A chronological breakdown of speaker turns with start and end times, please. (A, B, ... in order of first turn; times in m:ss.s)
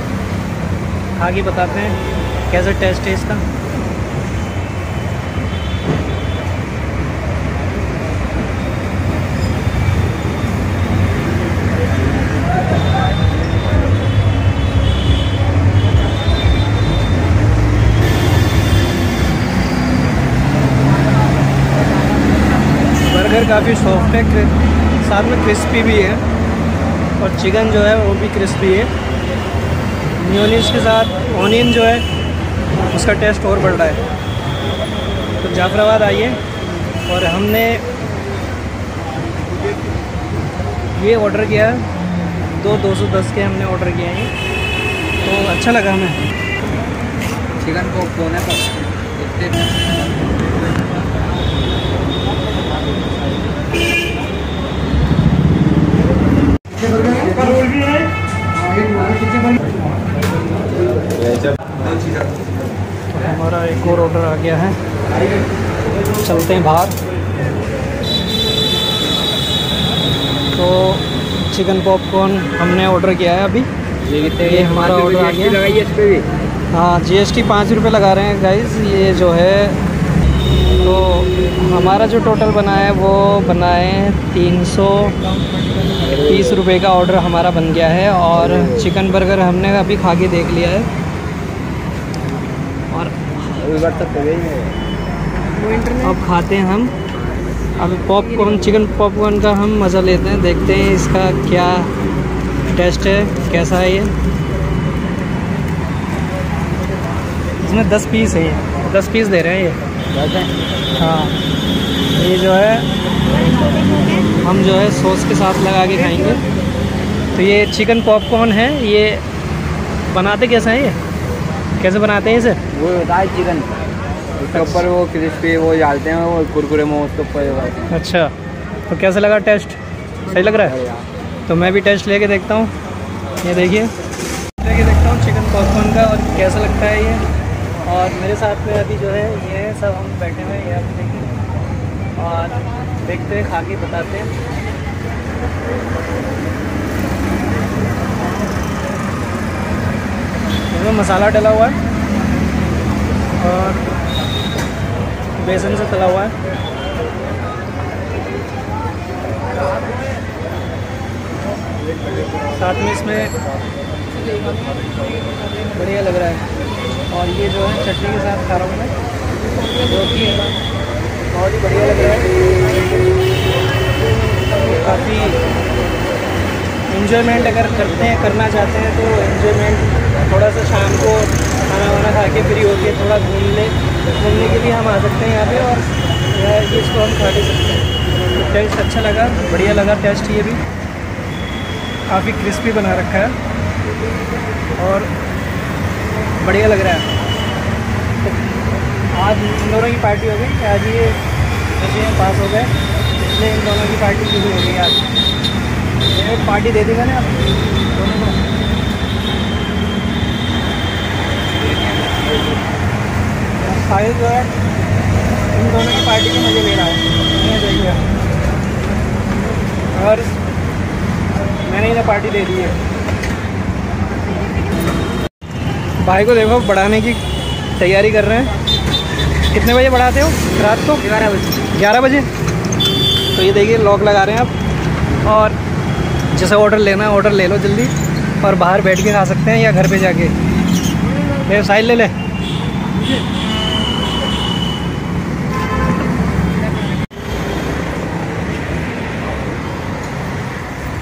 0:01.2-0:02.0 A
0:02.5-0:03.4 A
0:23.0-0:26.2 A
0:27.2-0:28.9 A
0:30.2-0:32.0 A
0:32.9-0:34.0 A
0:35.4-0:36.4 A
0:37.1-0:37.8 A
0:41.0-0:41.9 A
0:42.5-0:44.3 A
0:45.2-0:46.2 A
0:47.6-0:49.8 B
1:01.2-1:01.6 B
1:03.1-1:04.8 A
1:06.2-1:07.0 A
1:10.5-1:13.7 A
1:14.0-1:16.3 B
1:14.4-1:15.6 A
1:16.7-1:19.8 A
1:20.8-1:25.4 A
1:26.0-1:26.6 B
1:26.3-1:30.9 A
1:28.4-1:28.8 B
1:32.9-1:33.6 A
1:33.6-1:34.8 B
1:35.9-1:36.9 A
1:37.8-1:41.9 A
1:42.7-1:44.1 A
1:47.6-1:49.8 A
1:50.1-1:50.5 B
1:51.0-1:51.4 A
1:52.2-1:52.9 A
1:54.3-1:56.4 A
1:57.4-1:59.2 A
2:00.1-2:01.0 A
2:01.8-2:02.6 A
2:02.7-2:03.7 B
2:04.4-2:07.8 B
2:04.6-2:04.8 A
2:07.9-2:08.3 A
2:08.9-2:10.8 A
2:10.7-2:11.1 B
2:11.5-2:12.7 A
2:13.4-2:13.9 A
2:14.6-2:17.2 A
2:17.8-2:21.4 A
2:22.2-2:24.3 A
2:30.7-2:31.8 A
2:33.4-2:33.8 A
2:35.4-2:36.3 A
2:42.5-2:43.3 A
2:45.7-2:46.4 A
2:47.1-2:48.9 A
2:49.8-2:50.5 A
2:51.3-2:53.1 A
2:54.4-2:55.4 A
2:56.9-3:10.6 A
3:12.1-3:13.4 A
3:14.8-3:15.1 A
3:16.4-3:17.1 A
3:19.1-3:21.2 A
3:21.8-3:25.0 A
3:26.1-3:28.4 A
3:31.9-3:32.3 B
3:33.6-3:34.5 A
3:35.5-3:38.0 A
3:39.9-3:40.4 A
3:41.6-3:42.8 A
3:46.0-3:47.2 A
3:47.8-3:48.5 A
3:49.5-3:52.3 A
3:53.3-3:54.5 A
3:55.2-3:55.6 A
3:56.3-4:00.4 A
4:01.4-4:02.1 A